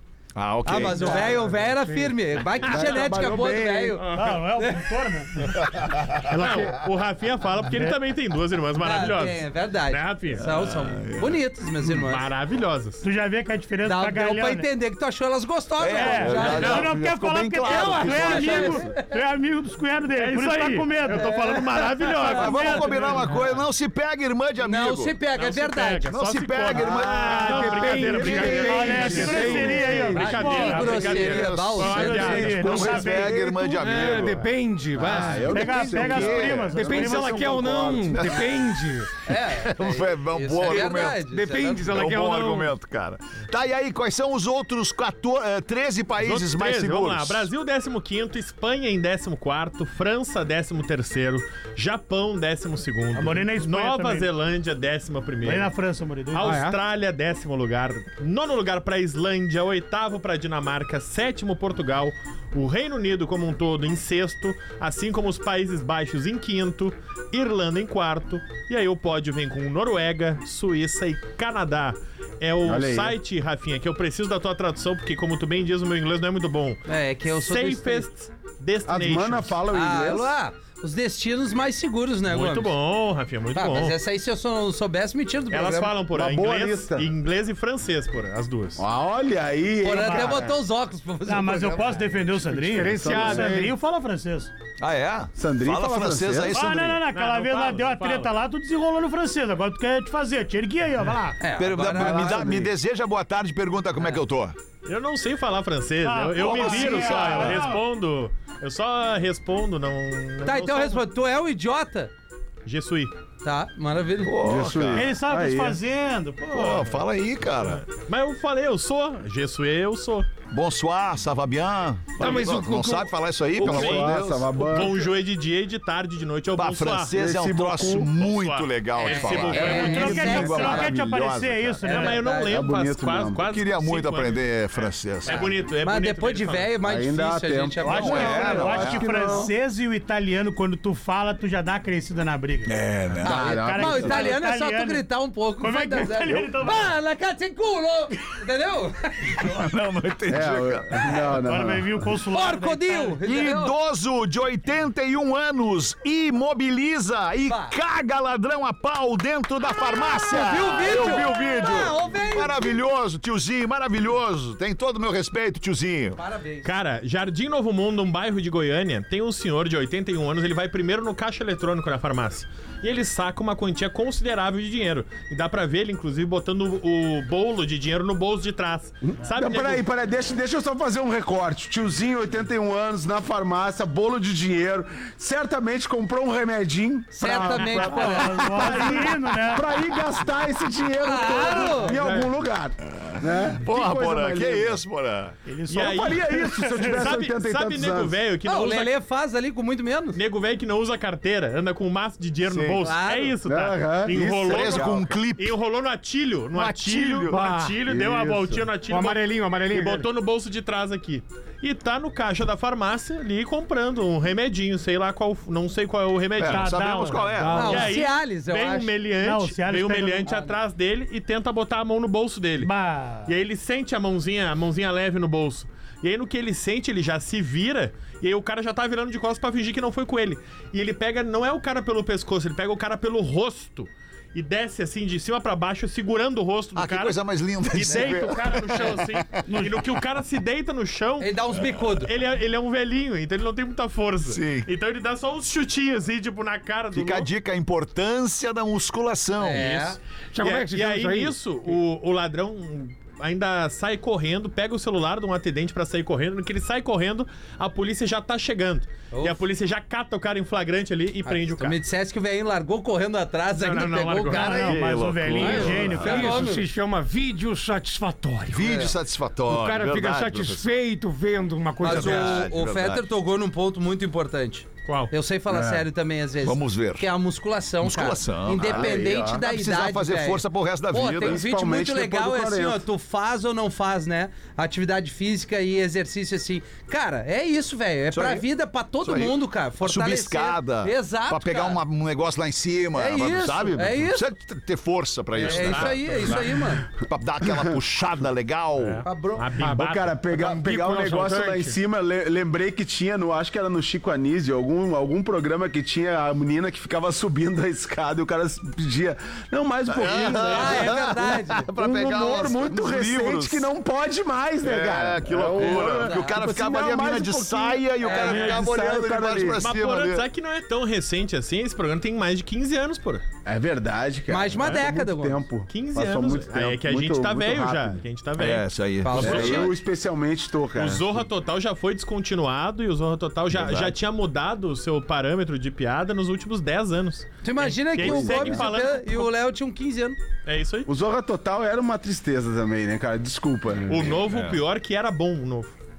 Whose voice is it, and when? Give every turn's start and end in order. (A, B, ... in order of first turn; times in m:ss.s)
0:00.4-0:01.3 A
0:00.6-0:04.0 B
0:01.1-0:01.8 C
0:02.6-0:04.0 D
0:02.8-0:03.1 E
0:04.1-0:05.5 F
0:04.6-0:04.9 B
0:05.8-0:06.1 A
0:06.3-0:10.4 E
0:06.3-0:06.7 C
0:08.8-0:12.3 B
0:10.4-0:11.4 A
0:11.9-0:13.0 E
0:13.0-0:14.7 F
0:13.8-0:16.9 B
0:15.8-0:18.8 A
0:15.9-0:23.3 F
0:16.5-0:16.9 E
0:17.6-0:19.0 B
0:20.2-0:23.6 E
0:21.1-0:22.5 B
0:22.3-0:25.1 A
0:24.6-0:26.1 B
0:25.4-0:33.0 E
0:26.1-0:28.0 A
0:27.0-0:30.1 C
0:27.5-0:31.2 F
0:28.2-0:30.1 D
0:28.9-0:29.8 A
0:30.0-0:32.9 B
0:30.6-0:34.5 A
0:31.8-0:33.5 F
0:32.7-0:33.8 D
0:33.8-0:39.1 C
0:35.0-0:38.3 D
0:35.0-0:36.9 A
0:35.1-0:37.6 F
0:38.1-0:38.5 A
0:39.2-0:41.9 B
0:39.5-0:41.2 A
0:40.6-0:42.7 C
0:41.8-0:47.5 A
0:46.2-0:55.7 E
0:53.1-0:54.3 F
0:55.4-0:56.6 F
0:56.3-1:19.6 E
0:56.4-0:56.8 C
1:12.6-1:13.2 D
1:16.9-1:18.1 B
1:18.9-1:20.4 D
1:19.7-1:22.7 B
1:22.3-1:24.0 E
1:23.5-1:25.9 B
1:25.5-1:28.8 E
1:26.1-1:27.1 D
1:28.8-1:30.5 D
1:29.8-1:32.0 B
1:29.9-1:30.4 F
1:31.3-1:34.5 F
1:32.5-1:33.8 C
1:32.9-1:33.7 D
1:34.8-1:37.1 A
1:35.4-1:36.6 D
1:36.5-1:41.4 F
1:37.1-1:38.3 E
1:41.4-1:42.5 B
1:41.6-1:44.6 A
1:41.8-1:42.7 D
1:44.8-1:51.0 E
1:46.0-1:47.8 F
1:46.4-1:47.7 A
1:50.4-1:52.1 B
1:52.6-1:53.1 E
1:53.4-1:54.4 B
1:54.2-1:55.1 A
1:54.4-1:55.8 D
1:54.9-1:57.0 F
1:56.5-1:57.8 A
1:57.9-2:00.3 E
2:00.5-2:04.9 A
2:02.2-2:03.1 C
2:03.6-2:07.2 E
2:03.6-2:04.9 D
2:06.6-2:11.8 A
2:07.1-2:08.1 D
2:08.2-2:10.4 E
2:09.0-2:10.9 B
2:09.5-2:12.2 F
2:10.4-2:10.8 D
2:11.8-2:12.5 B
2:11.8-2:16.7 E
2:12.5-2:13.4 D
2:13.4-2:15.5 A
2:15.3-2:19.5 B
2:16.8-2:19.5 D
2:17.8-2:22.7 F
2:17.9-2:19.0 A
2:22.7-2:24.2 A
2:23.2-2:24.3 D
2:23.2-2:29.6 B
2:23.3-2:25.0 F
2:25.6-2:26.9 F
2:29.4-2:31.2 A
2:30.3-2:32.0 D
2:31.4-2:33.2 F
2:32.3-2:33.7 B
2:33.2-2:46.2 A
2:37.5-2:37.7 B
2:40.3-2:42.8 B
2:46.2-2:46.7 B
2:46.6-2:59.8 E
2:59.2-3:14.8 D
3:07.1-3:08.8 B
3:07.2-3:09.7 F
3:11.0-3:12.0 B
3:11.9-3:12.4 E
3:13.1-3:15.4 A
3:15.5-3:17.0 F
3:15.7-3:18.9 E
3:15.8-3:18.2 D
3:18.5-3:20.2 B
3:20.2-3:36.8 E
3:22.4-3:22.8 A
3:22.8-3:23.4 B
3:23.4-3:25.1 D
3:24.2-3:25.6 A
3:26.5-3:27.4 A
3:27.3-3:27.8 C
3:27.8-3:28.7 D
3:28.9-3:30.1 C
3:36.4-3:37.9 A
3:36.4-3:37.9 F
3:37.5-3:38.9 B
3:37.6-3:42.7 E
3:39.2-3:40.5 F
3:42.6-3:43.3 F
3:43.3-4:07.3 E
3:56.8-3:59.2 A
3:59.5-3:59.8 F
4:01.2-4:02.1 B
4:04.2-4:04.7 A
4:06.9-4:09.7 A
4:09.4-4:10.0 B
4:09.6-4:21.8 E
4:10.3-4:11.4 C
4:19.1-4:19.4 B
4:21.2-4:24.8 B
4:23.6-4:25.9 E
4:24.3-4:26.5 F
4:24.6-4:26.4 A
4:25.4-4:26.6 B
4:25.8-4:28.9 C
4:28.5-4:30.7 A
4:28.6-4:28.9 B
4:29.5-4:32.5 C
4:31.8-4:33.1 A
4:31.8-4:51.8 B
4:34.9-4:35.1 E
4:35.5-4:35.9 D
4:36.4-4:37.1 A
4:37.8-4:41.4 A
4:38.6-4:39.4 D
4:41.2-4:42.8 D
4:48.1-4:48.5 A
4:49.0-4:56.4 A
4:53.0-4:54.3 B
4:55.3-4:56.8 B
4:55.4-4:56.6 E
4:57.0-4:59.0 A
4:58.8-5:00.2 E
4:59.0-4:59.5 B
4:59.6-5:01.8 C
4:59.8-5:11.2 D
5:09.9-5:13.7 A
5:10.4-5:11.7 B
5:11.7-5:19.6 D
5:14.6-5:20.2 A
5:15.6-5:16.4 B
5:18.0-5:18.6 B
5:18.1-5:18.6 E
5:19.6-5:23.2 E
5:23.4-5:28.0 D
5:24.3-5:25.5 B
5:25.7-5:28.7 E
5:28.4-5:29.7 A
5:29.0-5:29.7 B
5:29.2-5:31.3 D
5:30.8-5:39.3 E
5:33.5-5:34.0 A
5:37.4-5:40.2 B
5:38.0-5:38.7 D
5:40.5-5:40.9 E
5:40.9-5:44.2 D
5:43.9-5:45.8 E
5:44.2-5:44.6 A